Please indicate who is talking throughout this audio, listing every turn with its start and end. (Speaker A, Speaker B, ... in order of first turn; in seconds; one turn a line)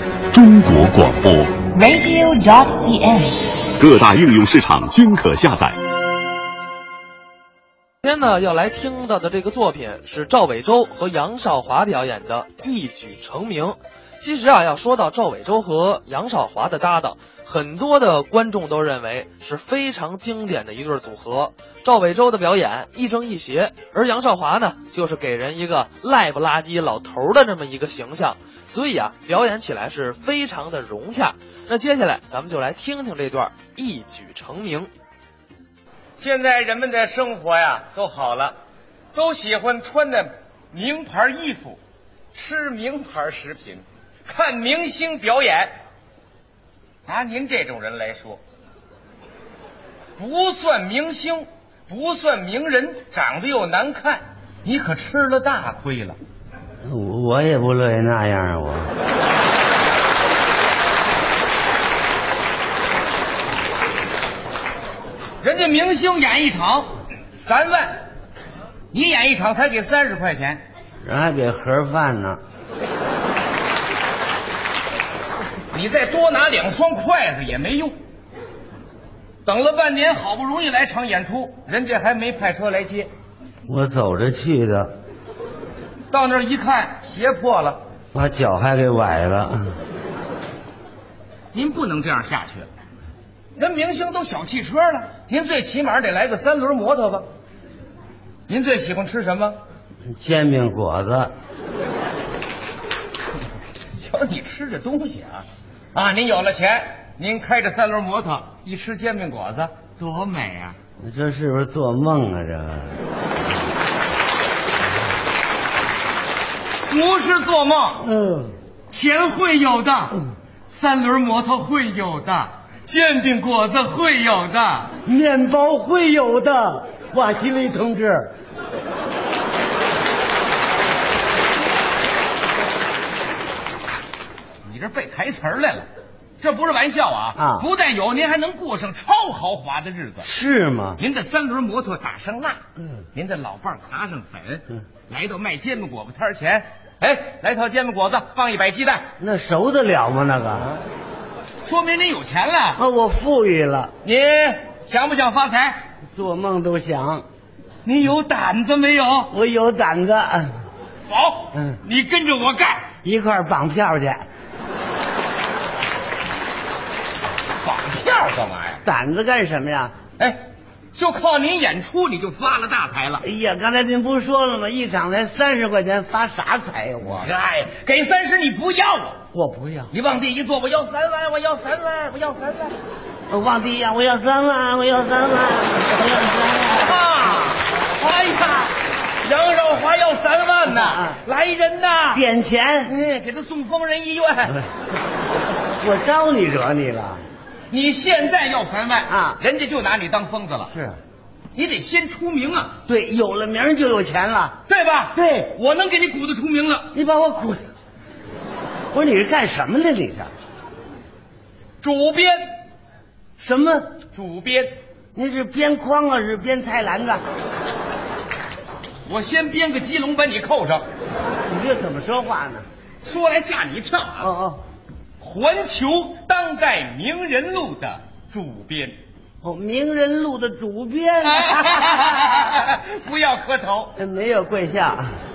Speaker A: 0.3-1.6
Speaker B: 1.7-3.7
Speaker A: 3.8-5.8
Speaker C: 8.0-34.9
Speaker D: 36.2-38.5
Speaker D: 39.1-41.8
Speaker D: 42.3-45.7
Speaker D: 47.1-48.4
Speaker D: 50.2-56.2
Speaker E: 56.8-58.9
Speaker D: 65.4-68.0
Speaker D: 68.9-70.6
Speaker E: 71.0-72.4
Speaker D: 75.7-78.0
Speaker D: 79.4-83.1
Speaker E: 83.7-84.9
Speaker D: 86.1-87.8
Speaker E: 88.1-89.8
Speaker D: 91.5-92.7
Speaker D: 93.5-97.3
Speaker D: 98.5-99.6
Speaker E: 100.1-101.3
Speaker D: 104.0-110.8
Speaker E: 111.0-113.0
Speaker D: 116.9-118.0
Speaker E: 118.0-118.5
Speaker D: 118.9-124.9
Speaker E: 125.0-128.3
Speaker D: 134.6-135.9
Speaker D: 136.4-140.3
Speaker E: 137.4-137.7
Speaker E: 140.2-141.0
Speaker D: 141.0-142.6
Speaker D: 143.1-149.1
Speaker E: 149.2-150.8
Speaker D: 151.6-152.8
Speaker E: 152.8-153.9
Speaker D: 154.0-155.8
Speaker E: 156.1-157.2
Speaker D: 157.8-159.3
Speaker E: 159.3-160.6
Speaker D: 161.1-162.9
Speaker E: 161.5-161.8
Speaker E: 163.0-164.2
Speaker D: 167.6-168.8
Speaker E: 168.8-169.9
Speaker D: 170.9-173.2
Speaker E: 173.2-177.3
Speaker D: 177.2-179.2
Speaker E: 179.3-179.9
Speaker D: 179.9-182.8
Speaker E: 183.3-187.0
Speaker D: 186.8-192.2
Speaker E: 190.7-191.2
Speaker E: 192.1-192.9
Speaker D: 192.8-194.6
Speaker E: 195.8-197.2
Speaker D: 197.7-200.7
Speaker E: 199.1-199.4
Speaker E: 200.7-201.0
Speaker D: 201.5-202.8
Speaker E: 202.9-204.6
Speaker D: 204.7-206.9
Speaker E: 205.1-205.5
Speaker E: 206.9-207.6
Speaker E: 208.9-210.3
Speaker D: 211.8-212.4
Speaker E: 213.4-213.9
Speaker D: 214.1-214.8
Speaker E: 215.1-217.2
Speaker D: 219.0-220.8
Speaker E: 221.4-222.7
Speaker D: 223.0-224.3
Speaker E: 224.2-224.6
Speaker D: 225.2-229.0
Speaker E: 229.4-232.6
Speaker D: 231.2-233.9
Speaker E: 233.9-235.1